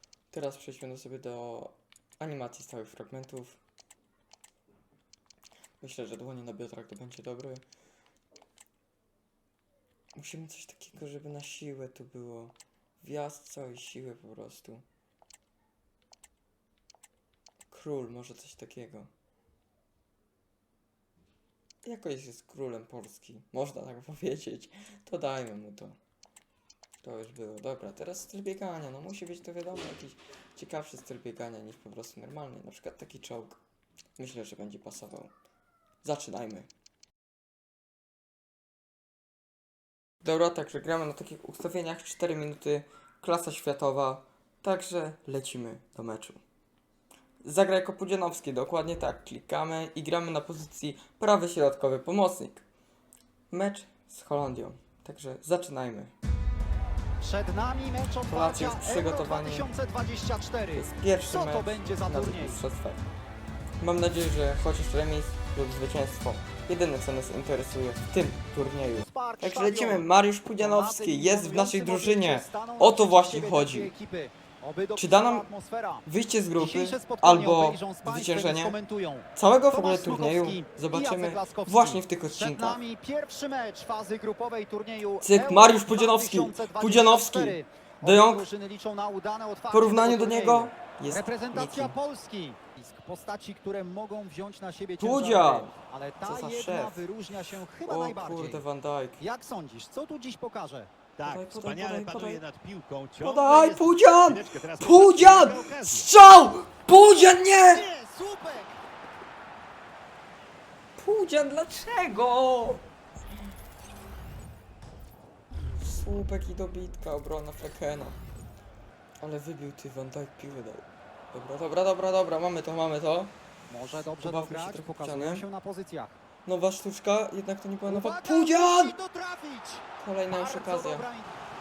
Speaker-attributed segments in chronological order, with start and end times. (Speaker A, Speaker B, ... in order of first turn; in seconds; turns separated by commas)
Speaker A: 0.3-3.6, Speaker A: 5.8-7.6, Speaker A: 10.1-14.8, Speaker A: 17.7-19.1, Speaker A: 21.8-25.9, Speaker A: 27.0-33.6, Speaker A: 34.2-35.3, Speaker A: 36.0-36.7, Speaker A: 40.2-46.4, Speaker A: 47.4-52.6, Speaker A: 53.5-56.1, Speaker B: 57.2-62.6, Speaker A: 58.3-59.7, Speaker A: 60.7-63.0, Speaker A: 63.8-73.9, Speaker B: 68.8-76.0, Speaker A: 75.0-75.5, Speaker A: 76.0-78.8, Speaker B: 76.6-98.6, Speaker A: 79.3-82.8, Speaker A: 85.2-88.5, Speaker A: 89.7-91.9, Speaker A: 95.0-97.0, Speaker A: 97.8-99.2, Speaker B: 99.2-100.9, Speaker C: 101.1-106.1, Speaker A: 101.2-102.4, Speaker A: 103.2-107.8, Speaker B: 107.6-108.8, Speaker A: 111.0-112.8, Speaker A: 115.8-118.2, Speaker A: 119.2-123.3, Speaker B: 123.7-126.2, Speaker A: 124.0-125.4, Speaker A: 126.4-128.9, Speaker B: 127.8-131.3, Speaker A: 130.0-131.1